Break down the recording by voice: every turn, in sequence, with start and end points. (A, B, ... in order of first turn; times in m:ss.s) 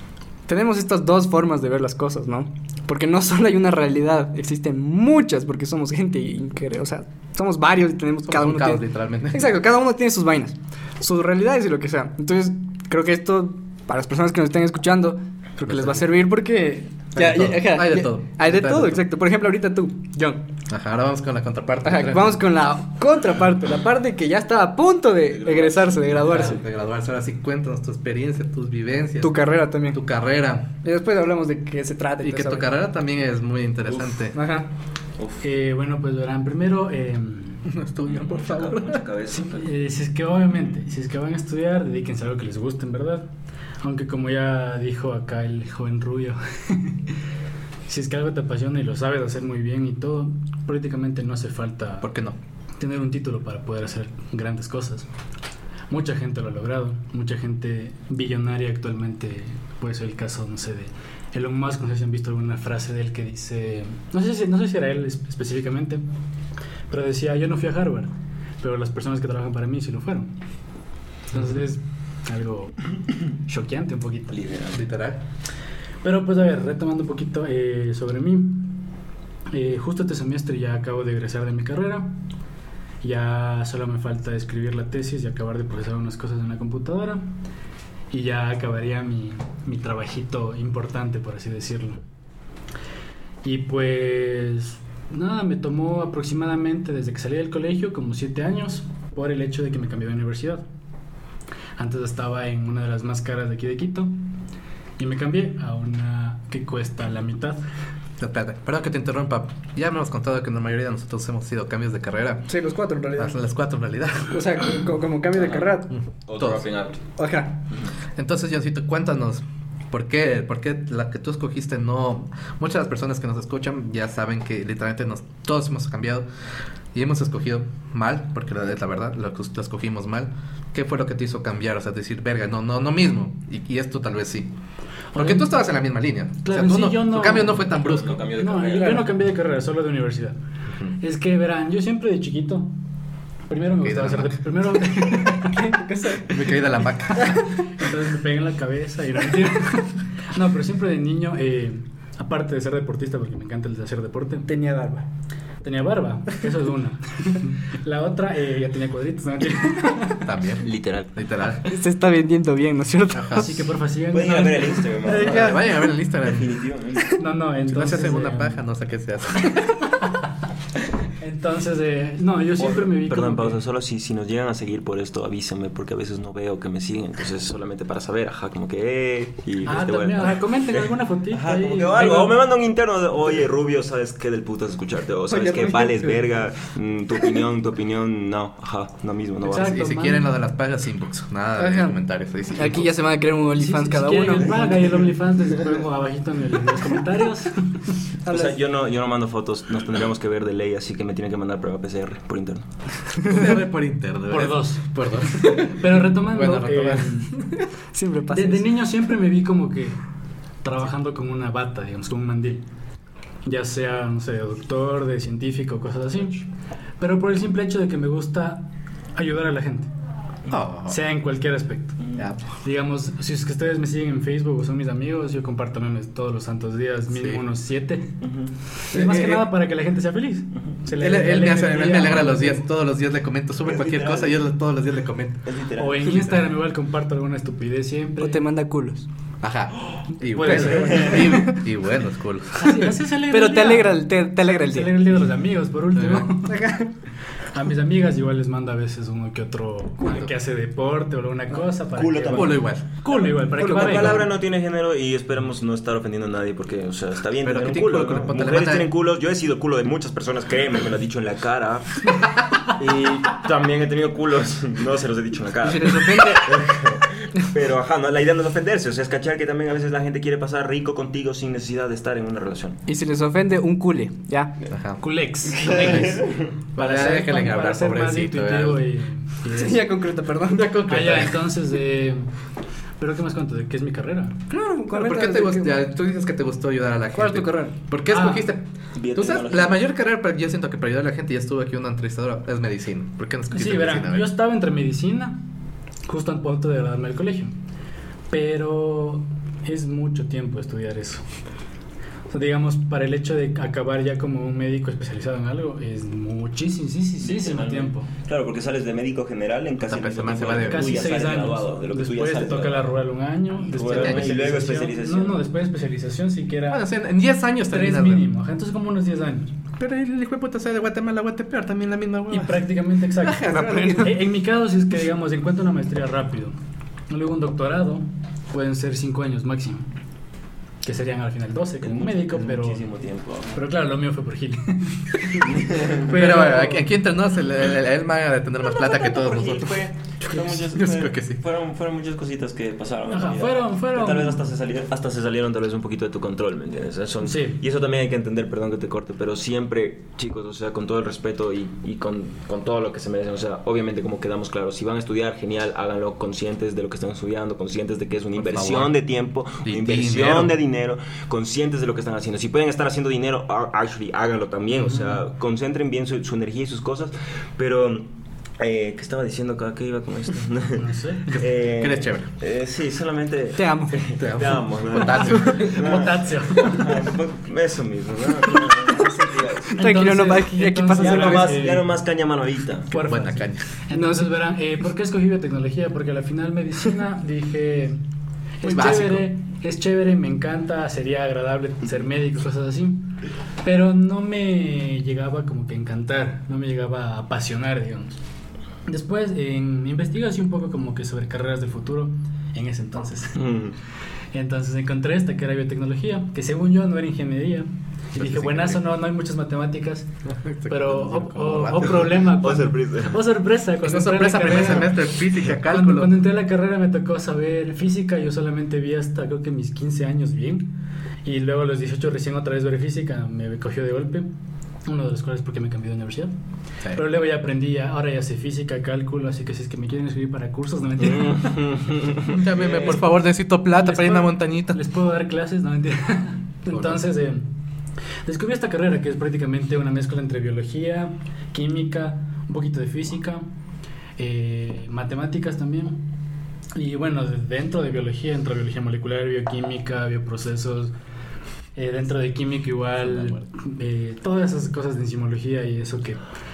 0:00.5-0:20.4 A
0:08.3-0:09.5 B
0:15.6-0:16.0 B
0:17.1-0:19.0 B
0:20.7-0:22.4 B
0:21.8-0:26.6 A
0:25.3-0:26.5 C
0:26.2-0:30.7 B
0:29.2-0:30.0 A
0:30.8-0:32.7 A
0:32.2-0:34.4 B
0:34.3-0:34.7 A
0:35.4-0:37.6 D
0:37.6-0:39.0 B
0:38.0-0:39.8 C
0:39.4-0:43.3 D
0:43.8-0:47.1 D
0:47.9-0:52.1 D
0:52.0-0:52.4 B
0:52.8-0:55.1 D
0:55.9-1:06.0 D
1:06.9-1:10.3 D
1:11.3-1:14.4 D
1:14.3-1:14.8 C
1:14.7-1:15.2 B
1:16.0-1:18.8 D
1:19.5-1:22.2 D
1:23.0-1:27.3 D
1:28.1-1:32.0 D
1:33.4-1:40.6 D
1:41.8-1:44.2 D
1:45.0-1:47.6 D
1:48.2-1:52.5 B
1:52.5-1:53.3 A
1:53.2-1:54.4 B
1:54.3-1:55.9 A
1:55.3-1:55.7 C
1:55.9-1:56.6 B
1:56.3-1:57.0 C
1:57.2-1:57.5 A
1:58.2-2:06.2 B
2:06.9-2:14.5 B
2:15.1-2:15.5 D
2:15.1-2:18.2 B
2:16.4-2:17.8 D
2:17.7-2:19.0 C
2:18.4-2:20.3 D
2:21.0-2:22.7 D
2:23.5-2:25.6 D
2:23.8-2:24.3 B
2:25.5-2:26.5 A
2:26.3-2:27.4 B
2:27.6-2:34.5 D
2:34.5-2:35.0 A
2:35.6-2:40.2 D
2:40.2-2:41.6 B
2:40.6-2:41.7 C
2:41.7-2:43.5 A
2:43.1-2:43.5 B
2:43.3-2:45.3 D
2:44.1-2:45.7 C
2:45.0-2:45.6 A
2:45.2-2:46.5 B
2:46.2-2:47.2 C
2:47.2-2:48.6 D
2:47.7-2:49.6 B
2:51.2-2:53.6 D
2:52.6-3:09.7 C
2:59.6-3:02.3 D
3:05.3-3:06.2 A
3:09.4-3:10.2 D
3:09.5-3:12.9 B
3:11.6-3:12.0 A
3:12.5-3:14.6 A
3:13.6-3:17.9 D
3:18.2-3:18.5 A
3:18.3-3:23.3 C
3:23.3-3:27.5 B
3:24.3-3:27.4 D
3:27.9-3:28.6 A
3:28.3-3:30.0 D
3:30.6-3:32.6 D
3:33.4-3:36.4 D
3:37.0-3:39.9 D
3:40.5-3:41.0 B
3:40.9-3:42.0 D
3:42.2-3:42.4 B
3:42.6-3:48.2 D
3:47.1-3:47.4 B
3:48.2-3:48.5 C
3:48.9-3:52.6 D
3:48.9-3:49.5 B
3:51.0-3:55.4 B
3:53.6-3:54.4 C
3:55.4-3:56.1 C
3:55.8-3:58.4 D
3:56.1-3:56.4 B
3:58.2-3:59.0 A
3:59.4-4:02.9 B
4:00.3-4:01.6 D
4:00.6-4:01.3 C
4:02.6-4:06.6 D
4:03.3-4:05.0 A
4:05.9-4:06.3 B
4:06.4-4:06.9 A
4:07.5-4:14.2 D
4:10.0-4:10.3 B
4:11.9-4:12.6 C
4:12.3-4:12.8 B
4:13.5-4:14.3 A
4:13.6-4:32.8 C
4:17.4-4:18.8 B
4:25.6-4:26.6 A
4:32.9-4:34.5 A
4:34.7-4:35.0 B
4:35.0-4:39.8 D
4:35.6-4:36.5 C
4:35.7-4:36.2 B
4:36.7-4:38.8 B
4:39.5-4:40.7 A
4:40.5-4:41.4 B
4:40.9-4:42.3 D
4:43.0-4:44.4 D
4:44.5-4:45.8 A
4:44.9-4:48.6 B
4:47.2-4:47.7 A
4:48.1-4:48.5 D
4:48.9-4:49.8 C
4:49.1-4:54.3 B
4:53.5-4:55.4 D
4:56.0-4:57.6 D
4:58.3-5:01.2 D
5:02.3-5:08.1 D
5:07.2-5:12.9 C
5:09.8-5:11.1 B
5:10.7-5:16.8 D
5:13.7-5:15.4 C
5:14.0-5:14.4 B
5:16.7-5:18.2 B
5:17.7-5:19.5 D
5:19.8-5:22.6 B
5:22.3-5:26.6 D
5:23.2-5:24.1 B
5:23.3-5:24.1 A
5:27.1-5:29.9 D
5:30.8-5:32.8 D
5:31.8-5:33.6 C
5:33.5-5:36.8 D
5:35.4-5:36.1 C
5:36.1-5:39.8 B
5:38.6-6:08.1 C
5:40.7-5:41.4 B
5:43.1-5:44.4 D
5:47.2-5:47.6 D
5:58.4-5:58.9 B
5:59.6-6:00.5 B
6:08.6-6:19.8 C
6:10.8-6:11.3 D
6:11.3-6:12.3 B
6:13.6-6:14.0 A
6:14.2-6:15.7 B
6:15.2-6:17.0 D
6:19.7-6:21.5 A
6:19.8-6:21.9 D
6:21.0-6:22.9 C
6:22.9-6:28.0 D
6:23.0-6:23.7 B
6:23.9-6:24.3 A
6:28.6-6:38.2 D
6:28.6-6:29.3 B
6:38.9-6:43.4 D
6:43.4-6:43.7 C
6:44.3-6:50.1 D
6:48.2-6:48.8 B
6:50.2-6:52.2 B
6:50.7-7:00.7 D
6:52.2-6:53.2 C
6:53.8-6:56.2 B
7:01.2-7:04.3 D
7:04.8-7:06.3 D
7:06.9-7:11.6 D
7:11.0-7:13.0 C
7:12.3-7:14.8 B
7:13.7-7:17.5 D
7:16.7-7:17.0 B
7:18.2-7:23.4 D
7:24.2-7:26.0 D
7:26.7-7:30.9 D
7:31.7-7:36.2 D
7:33.0-7:33.4 B